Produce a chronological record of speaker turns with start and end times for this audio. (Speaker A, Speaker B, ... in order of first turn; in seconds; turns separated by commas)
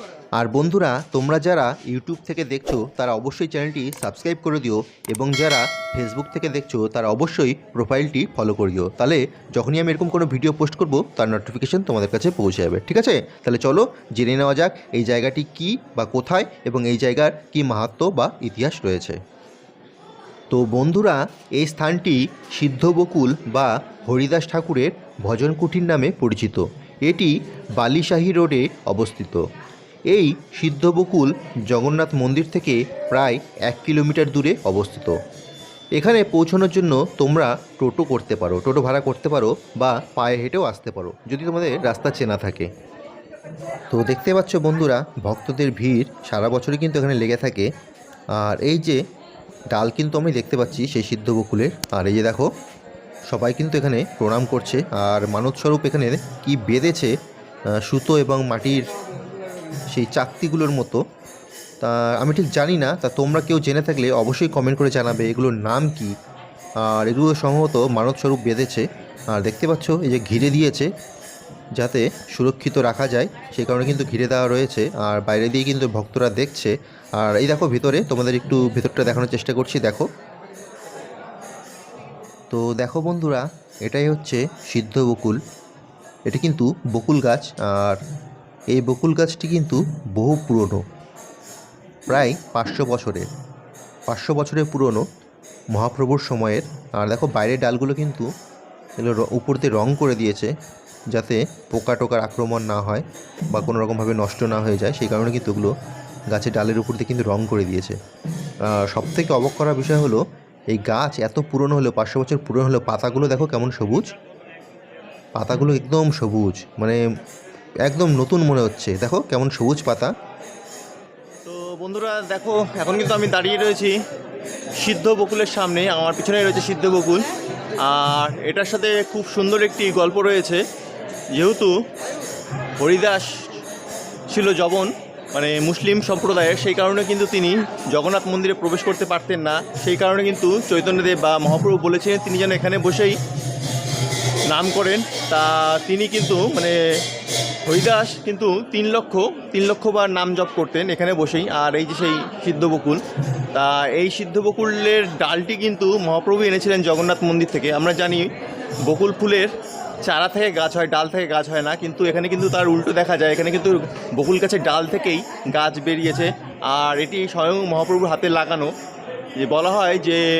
Speaker A: 0.4-19.2, Speaker A: 20.5-29.4, Speaker A: 30.1-35.1, Speaker A: 36.0-42.7, Speaker A: 43.9-47.7, Speaker A: 48.4-49.0, Speaker A: 49.7-52.5, Speaker A: 53.3-57.1, Speaker A: 57.8-58.9, Speaker A: 59.9-61.0, Speaker A: 61.8-66.1, Speaker A: 66.8-70.9, Speaker A: 71.8-80.1, Speaker A: 82.5-85.4, Speaker A: 86.3-88.0, Speaker A: 88.7-90.8, Speaker A: 92.1-93.3, Speaker A: 94.1-95.0, Speaker A: 95.7-98.3, Speaker A: 99.0-100.5, Speaker A: 101.1-105.7, Speaker A: 106.3-107.9, Speaker A: 108.7-114.1, Speaker A: 115.3-117.0, Speaker A: 117.8-120.1, Speaker B: 121.5-123.9, Speaker A: 121.5-123.9, Speaker B: 124.8-127.3, Speaker A: 124.9-127.0, Speaker B: 127.8-130.6, Speaker A: 128.3-130.2, Speaker B: 131.4-131.7, Speaker B: 132.8-133.2, Speaker B: 134.3-143.2, Speaker A: 134.4-134.8, Speaker A: 138.2-139.4, Speaker B: 144.5-146.7, Speaker B: 147.7-153.0, Speaker A: 147.9-148.3, Speaker A: 150.9-151.2, Speaker B: 153.6-158.3, Speaker B: 158.9-159.5, Speaker B: 160.0-168.7, Speaker B: 169.4-170.2